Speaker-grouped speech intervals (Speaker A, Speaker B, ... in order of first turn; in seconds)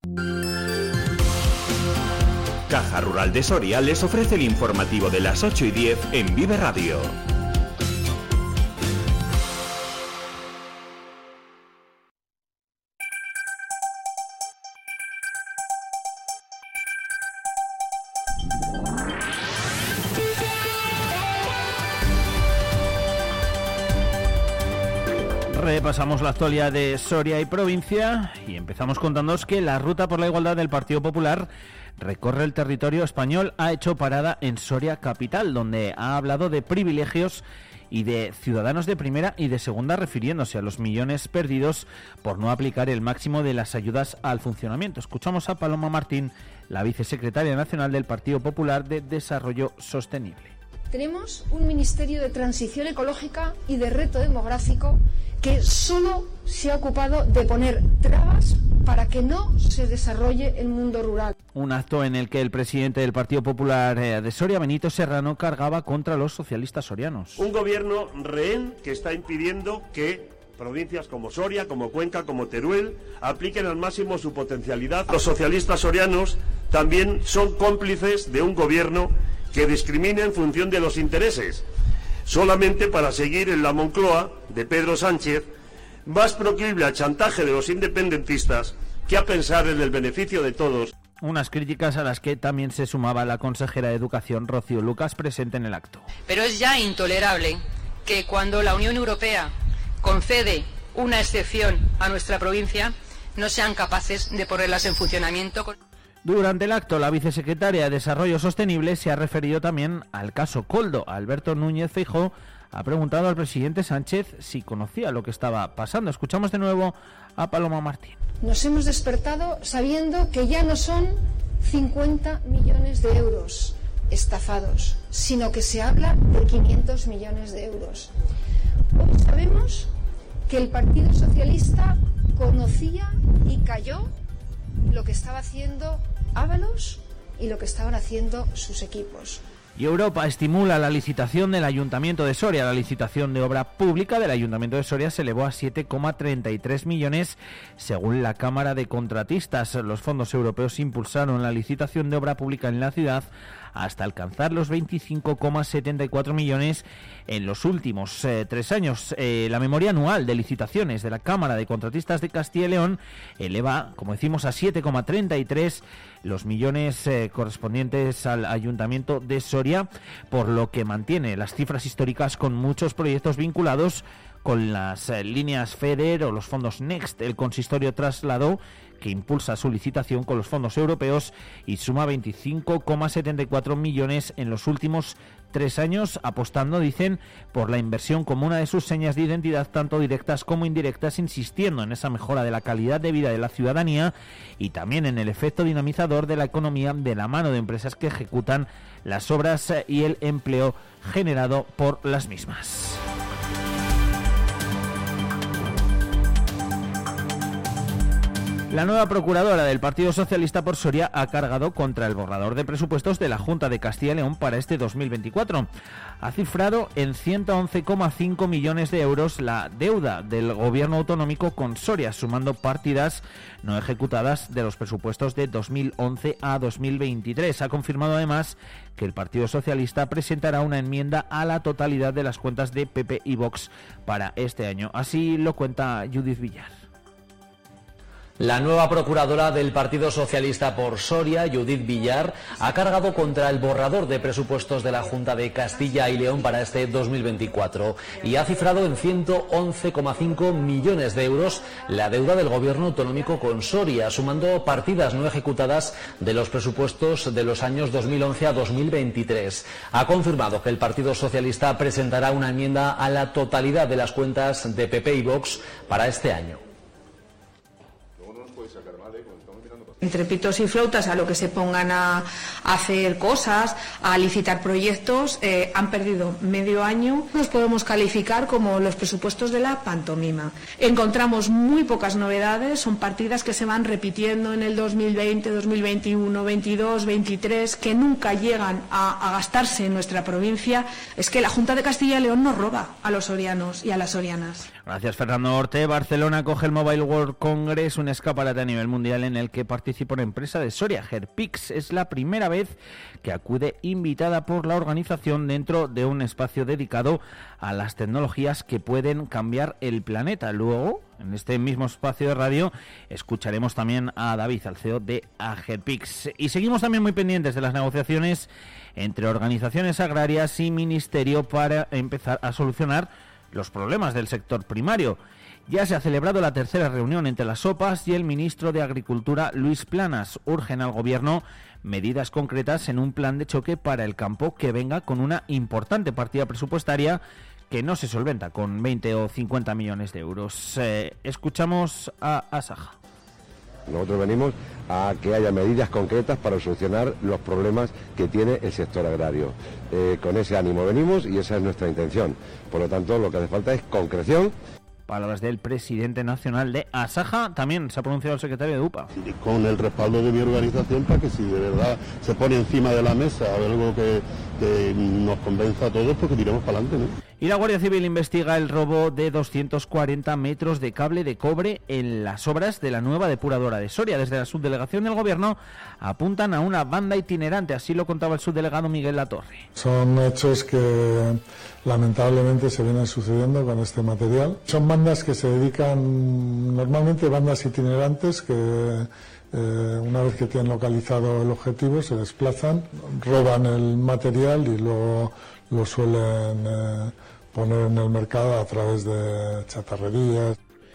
Speaker A: 2.7-7.2
Speaker B: 25.5-50.5, 61.5-67.4, 91.2-96.1, 106.2-118.2, 139.8-203.0, 208.7-215.7, 216.2-236.7, 294.8-342.9, 355.1-359.1, 367.4-379.6
Speaker C: 50.9-61.3, 118.4-128.1, 129.0-129.9, 130.5-134.1, 134.9-139.4
Speaker D: 67.4-81.6, 82.3-85.5, 86.0-90.9
Speaker E: 96.3-99.5, 100.0-105.7
Speaker F: 238.4-266.6
Speaker G: 270.0-294.6
Speaker H: 343.9-354.5
Speaker I: 359.2-367.1
Speaker J: 379.8-400.6